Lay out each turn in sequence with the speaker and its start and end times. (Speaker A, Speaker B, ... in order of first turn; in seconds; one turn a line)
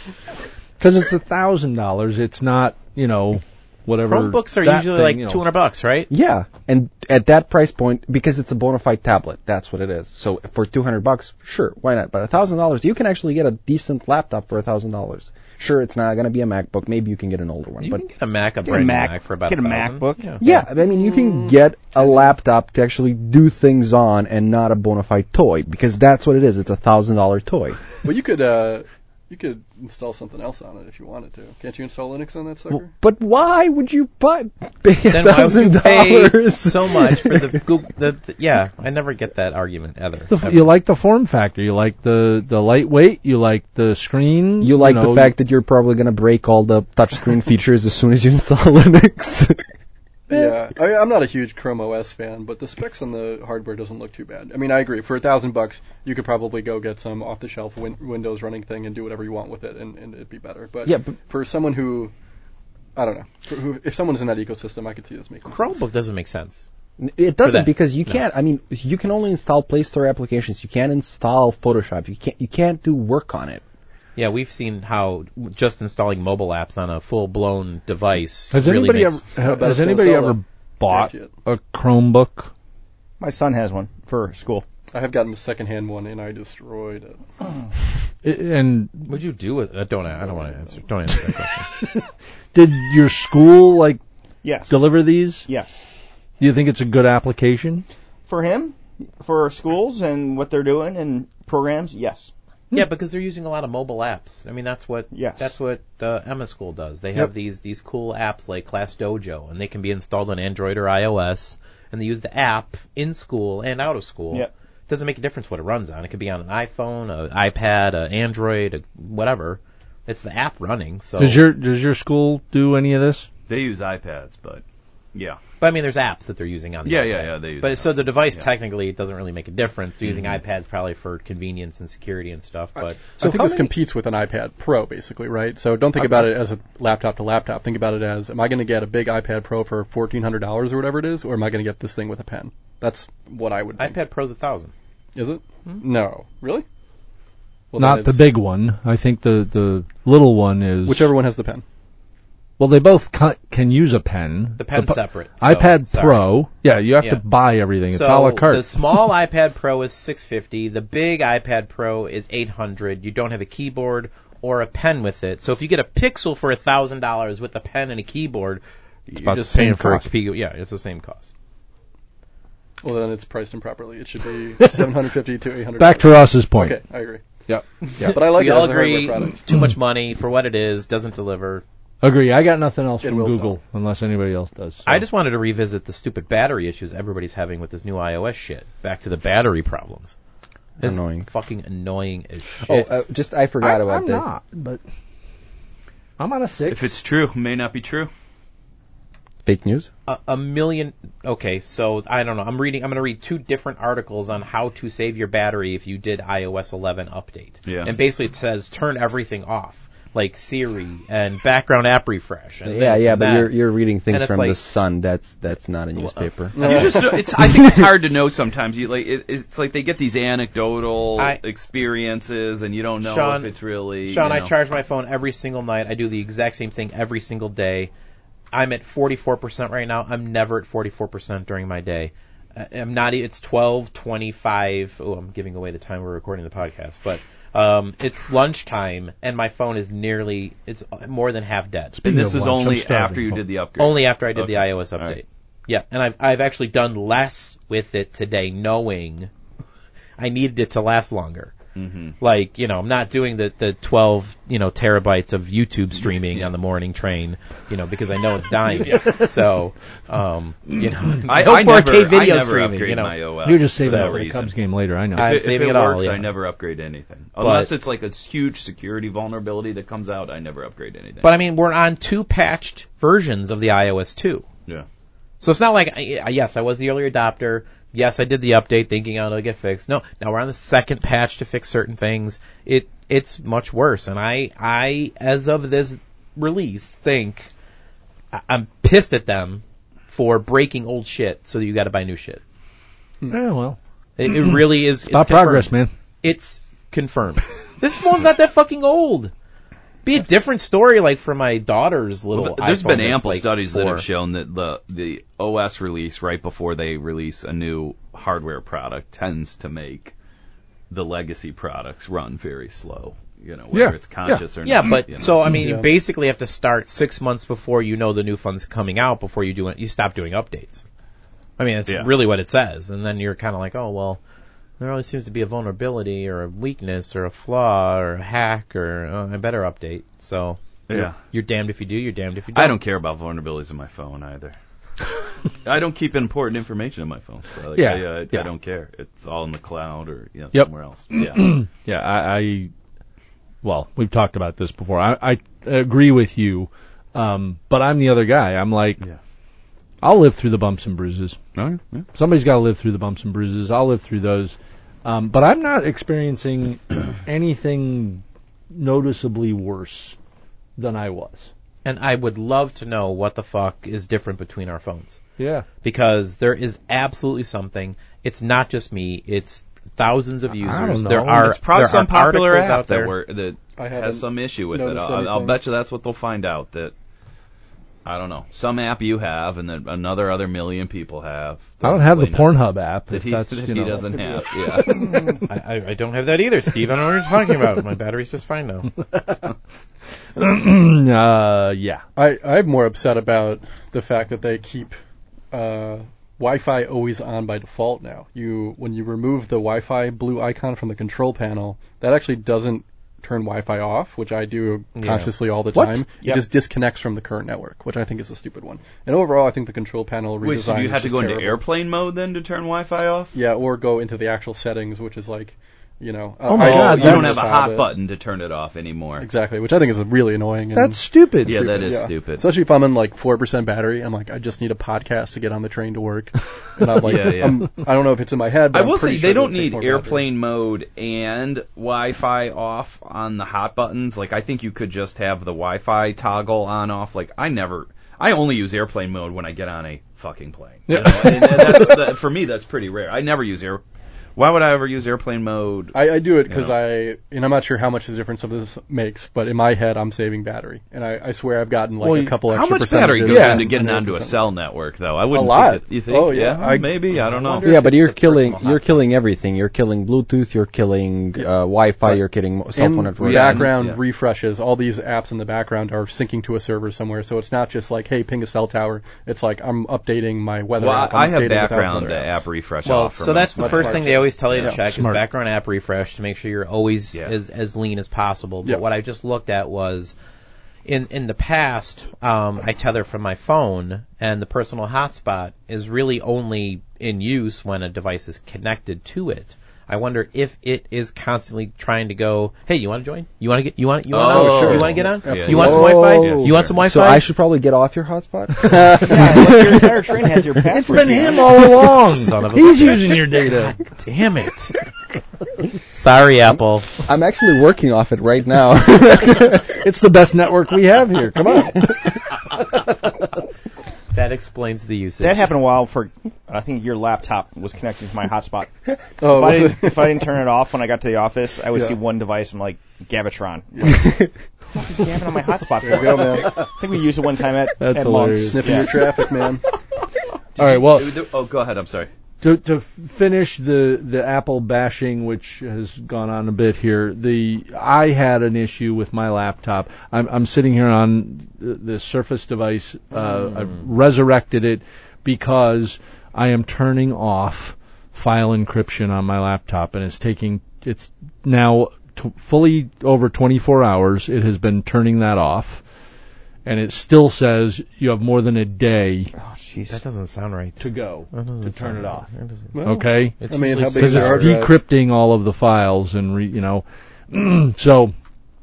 Speaker A: 0.8-5.4
Speaker B: 4.0-6.1
Speaker C: 6.1-18.0
Speaker B: 17.8-20.4
Speaker D: 18.6-20.5
Speaker C: 20.4-27.9
Speaker E: 28.0-32.9
Speaker C: 33.0-37.6
Speaker B: 35.1-40.7
Speaker A: 40.3-45.3
Speaker C: 44.6-49.7
Speaker E: 50.3-62.1
Speaker C: 60.9-61.1
Speaker E: 63.0-65.7
Speaker B: 65.5-66.7
Speaker C: 67.0-73.6
Speaker B: 67.4-68.2
Speaker B: 74.2-79.2
Speaker A: 78.5-82.5
Speaker E: 79.4-81.3
Speaker D: 83.2-84.7
Speaker E: 84.9-87.3
Speaker A: 88.2-89.1
Speaker B: 89.1-91.7
Speaker A: 91.8-94.0
Speaker D: 94.4-95.8
Speaker A: 94.7-95.5
Speaker A: 96.4-97.8
Speaker D: 98.3-102.3
Speaker B: 102.7-121.4
Speaker D: 105.1-105.5
Speaker A: 121.2-123.3
Speaker F: 123.5-124.6
Speaker F: 125.1-125.4
Speaker B: 125.6-133.0
Speaker F: 126.8-128.5
Speaker F: 130.1-130.4
Speaker E: 133.2-144.0
Speaker C: 133.2-133.7
Speaker B: 143.8-144.7
Speaker E: 145.2-146.7
Speaker E: 147.7-148.3
Speaker A: 147.8-151.1
Speaker E: 150.8-151.6
Speaker A: 152.6-158.7
Speaker B: 154.6-156.3
Speaker B: 157.9-171.3
Speaker A: 169.2-170.1
Speaker E: 172.8-177.2
Speaker A: 174.6-174.9
Speaker A: 175.8-176.8
Speaker A: 177.5-178.3
Speaker E: 178.0-179.4
Speaker B: 178.0-181.6
Speaker A: 182.0-185.1
Speaker E: 183.0-183.6
Speaker B: 184.9-190.2
Speaker B: 190.8-192.9
Speaker C: 190.8-191.3
Speaker C: 192.6-194.3
Speaker A: 193.6-194.8
Speaker A: 196.2-196.9
Speaker F: 196.7-198.1
Speaker C: 199.4-199.9
Speaker B: 200.1-214.6
Speaker F: 207.7-207.9
Speaker C: 212.7-217.9
Speaker B: 216.0-216.3
Speaker E: 216.6-217.2
Speaker F: 216.6-224.5
Speaker B: 223.0-227.9
Speaker B: 228.5-242.0
Speaker A: 242.0-243.4
Speaker F: 242.0-245.2
Speaker B: 243.8-249.3
Speaker B: 250.2-251.5
Speaker F: 251.8-252.2
Speaker B: 252.2-263.2
Speaker A: 258.8-259.3
Speaker F: 261.1-264.5
Speaker A: 263.4-265.4
Speaker B: 263.7-264.3
Speaker B: 265.1-266.3
Speaker F: 265.2-271.3
Speaker B: 267.4-267.7
Speaker B: 271.2-274.5
Speaker B: 275.4-287.5
Speaker B: 288.3-292.4
Speaker A: 293.3-295.9
Speaker B: 294.2-295.7
Speaker B: 296.2-299.3
Speaker B: 300.0-304.1
Speaker F: 302.4-310.1
Speaker F: 310.9-315.3
Speaker A: 313.7-314.4
Speaker B: 314.6-320.9
Speaker E: 315.6-315.9
Speaker B: 321.6-324.2
Speaker B: 324.8-332.8
Speaker F: 330.9-331.2
Speaker F: 332.6-334.6
Speaker F: 335.6-341.5
Speaker A: 337.7-338.5
Speaker A: 340.5-342.7
Speaker A: 343.6-349.0
Speaker A: 350.0-351.4
Speaker F: 351.6-352.1
Speaker A: 352.1-360.1
Speaker A: 360.8-361.5
Speaker B: 361.9-365.2
Speaker A: 365.4-365.6
Speaker B: 365.8-373.1
Speaker A: 370.6-371.5
Speaker F: 371.1-376.9
Speaker E: 373.8-375.6
Speaker F: 378.1-385.3
Speaker A: 381.8-385.5
Speaker B: 385.5-388.9
Speaker A: 389.0-389.5
Speaker A: 390.4-392.0
Speaker E: 392.2-395.0
Speaker E: 395.5-411.6
Speaker B: 405.0-405.3
Speaker A: 405.7-406.1
Speaker F: 410.4-413.3
Speaker E: 413.3-417.9
Speaker A: 416.5-417.4
Speaker F: 416.6-419.3
Speaker E: 419.2-430.3
Speaker A: 420.7-421.9
Speaker F: 421.4-422.4
Speaker F: 427.0-427.7
Speaker F: 428.7-443.8
Speaker A: 440.9-441.2
Speaker E: 440.9-441.9
Speaker F: 444.4-446.8
Speaker E: 445.9-454.4
Speaker A: 452.0-452.4
Speaker F: 452.4-457.7
Speaker A: 453.3-453.7
Speaker E: 455.3-457.0
Speaker B: 457.2-459.1
Speaker C: 457.6-463.7
Speaker E: 462.7-472.4
Speaker F: 463.2-464.0
Speaker F: 470.8-474.7
Speaker B: 472.9-480.1
Speaker E: 473.6-474.8
Speaker A: 474.9-475.2
Speaker B: 480.9-497.2
Speaker F: 494.1-496.8
Speaker E: 494.2-496.1
Speaker C: 495.5-499.7
Speaker A: 498.6-499.8
Speaker D: 498.9-501.6
Speaker A: 500.7-503.8
Speaker B: 501.9-504.8
Speaker B: 505.9-506.9
Speaker C: 507.0-509.7
Speaker A: 509.6-513.2
Speaker B: 514.1-515.5
Speaker D: 515.2-524.0
Speaker E: 519.2-520.1
Speaker E: 523.7-524.0
Speaker D: 524.7-529.3
Speaker E: 525.8-526.7
Speaker A: 527.8-528.8
Speaker E: 528.3-529.6
Speaker F: 530.6-532.1
Speaker A: 530.6-531.2
Speaker A: 532.4-555.8
Speaker A: 556.6-559.3
Speaker D: 559.4-560.0
Speaker B: 559.9-564.6
Speaker A: 560.8-562.3
Speaker E: 562.7-564.8
Speaker A: 562.8-568.1